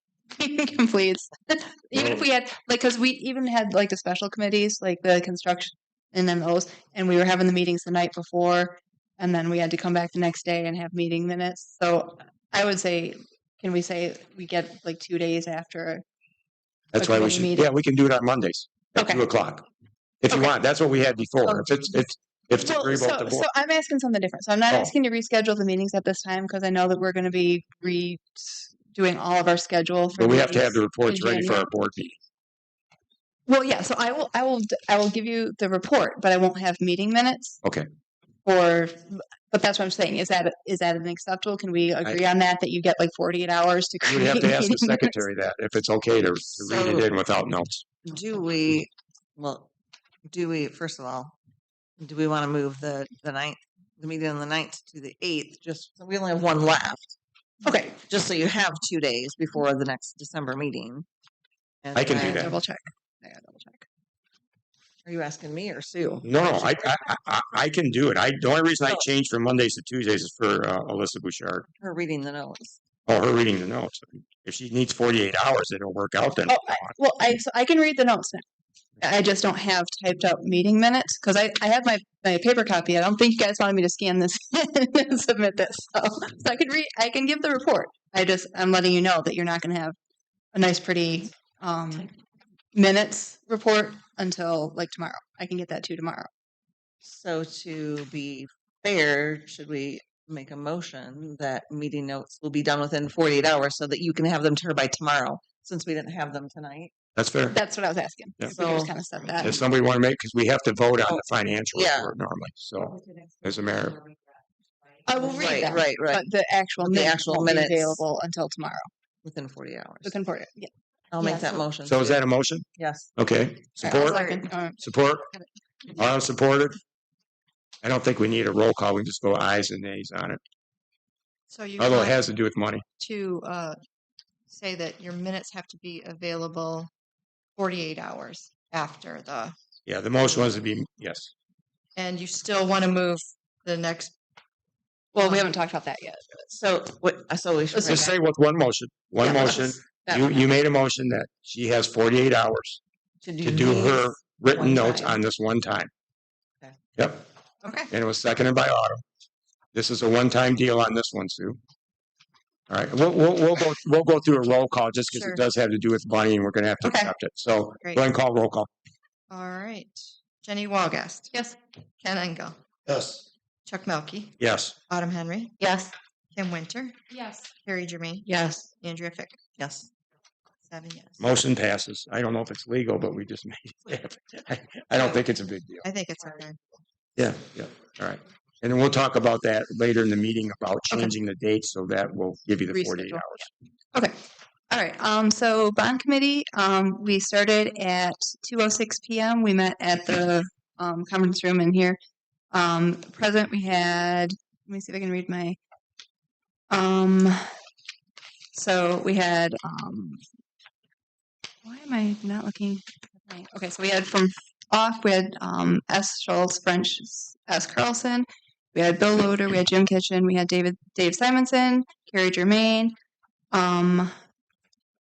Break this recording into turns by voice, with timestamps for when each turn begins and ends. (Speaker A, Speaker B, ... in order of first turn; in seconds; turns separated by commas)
Speaker A: 0.3-16.0, Speaker B: 1.9-2.2, Speaker B: 16.9-19.6, Speaker A: 16.9-17.7, Speaker A: 18.9-19.2, Speaker B: 20.2-23.5, Speaker A: 22.5-31.7, Speaker B: 24.7-24.9, Speaker B: 30.1-32.2, Speaker A: 33.5-37.6, Speaker B: 37.6-37.9, Speaker A: 38.4-45.2, Speaker B: 44.0-47.8, Speaker C: 46.5-47.1, Speaker C: 48.0-49.7, Speaker C: 50.3-51.3, Speaker C: 52.0-57.1, Speaker A: 57.6-58.0, Speaker C: 58.0-61.0, Speaker C: 61.8-62.5, Speaker B: 61.9-62.6, Speaker A: 62.1-63.8, Speaker C: 65.0-66.7, Speaker B: 66.2-71.7, Speaker C: 71.8-72.8, Speaker B: 73.0-76.9, Speaker A: 76.5-78.4, Speaker A: 79.0-90.0, Speaker A: 90.5-92.1, Speaker A: 92.7-96.3, Speaker C: 97.0-106.9, Speaker B: 107.2-107.5, Speaker A: 107.5-109.6, Speaker D: 108.5-108.9, Speaker B: 109.4-114.0, Speaker C: 111.7-112.1, Speaker A: 115.0-118.9, Speaker C: 115.1-116.2, Speaker C: 116.8-118.0, Speaker C: 119.2-120.2, Speaker A: 120.0-121.7, Speaker C: 121.1-122.2, Speaker B: 121.8-125.2, Speaker C: 122.8-123.1, Speaker A: 123.8-125.4, Speaker D: 123.9-124.4, Speaker B: 126.0-126.8, Speaker B: 127.8-130.4, Speaker D: 131.5-132.2, Speaker B: 131.8-132.8, Speaker D: 133.0-133.8, Speaker D: 134.5-136.9, Speaker D: 137.6-139.5, Speaker B: 139.8-141.3, Speaker D: 141.9-144.1, Speaker A: 145.1-146.5, Speaker C: 146.5-148.2, Speaker B: 147.7-152.8, Speaker A: 149.2-150.2, Speaker C: 153.2-155.2, Speaker B: 153.4-155.9, Speaker B: 156.9-157.2, Speaker A: 157.6-157.9, Speaker B: 157.9-159.0, Speaker B: 159.7-161.6, Speaker B: 162.7-168.7, Speaker D: 165.1-165.4, Speaker A: 166.8-167.1, Speaker D: 169.3-171.3, Speaker A: 171.3-171.6, Speaker D: 172.0-172.6, Speaker B: 172.9-173.2, Speaker D: 173.7-174.4, Speaker B: 174.4-174.8, Speaker D: 174.9-175.6, Speaker A: 175.6-175.9, Speaker D: 176.3-177.0, Speaker A: 177.1-177.5, Speaker D: 177.6-178.3, Speaker A: 178.2-178.7, Speaker D: 178.8-179.3, Speaker C: 179.6-179.9, Speaker D: 180.7-181.2, Speaker B: 181.2-185.9, Speaker D: 184.9-185.2, Speaker D: 185.8-186.8, Speaker B: 187.2-193.5, Speaker A: 192.7-194.1, Speaker A: 194.7-202.0, Speaker A: 202.5-205.6, Speaker A: 206.7-207.5, Speaker A: 208.5-210.2, Speaker A: 211.6-222.9, Speaker A: 223.5-224.1